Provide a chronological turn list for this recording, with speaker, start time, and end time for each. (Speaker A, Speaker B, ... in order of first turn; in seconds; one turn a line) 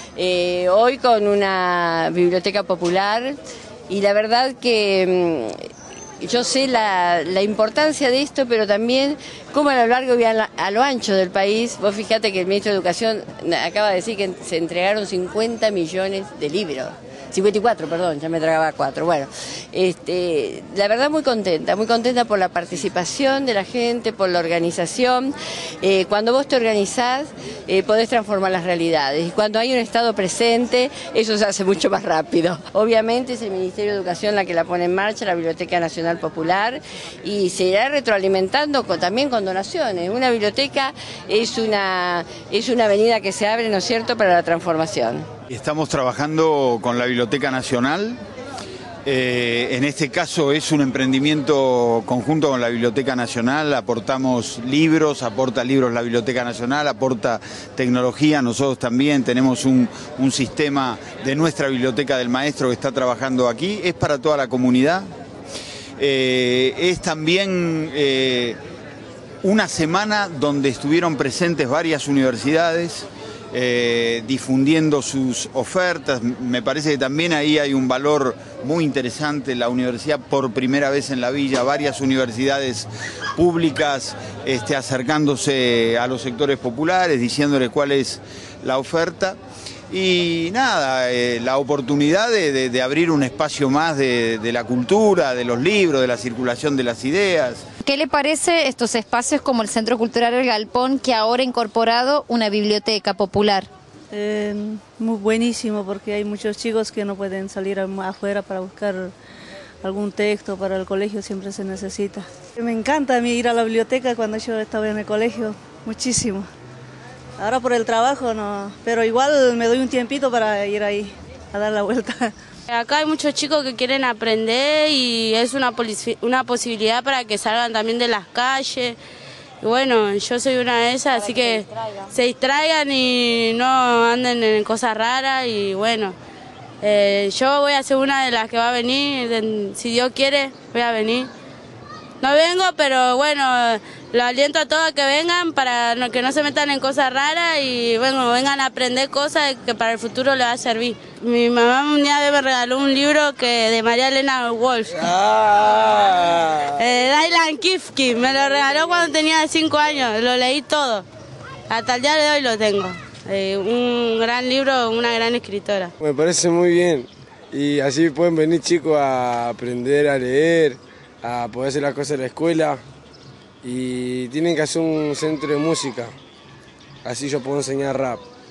Speaker A: 0.2-3.4
Speaker A: 3.9-5.5
Speaker A: 6.2-45.3
Speaker B: 45.5-48.2
Speaker B: 49.0-65.1
Speaker B: 66.0-68.6
Speaker B: 69.4-89.4
Speaker B: 89.9-97.6
Speaker C: 97.8-103.7
Speaker D: 104.1-109.1
Speaker D: 109.8-116.5
Speaker D: 117.4-122.3
Speaker E: 122.7-129.0
Speaker E: 129.6-136.2
Speaker E: 136.8-141.3
Speaker E: 142.2-155.1
Speaker F: 155.0-156.7
Speaker E: 155.8-156.1
Speaker E: 156.7-161.1
Speaker E: 161.7-165.9
Speaker F: 166.0-172.8
Speaker F: 173.6-176.1
Speaker F: 177.1-178.2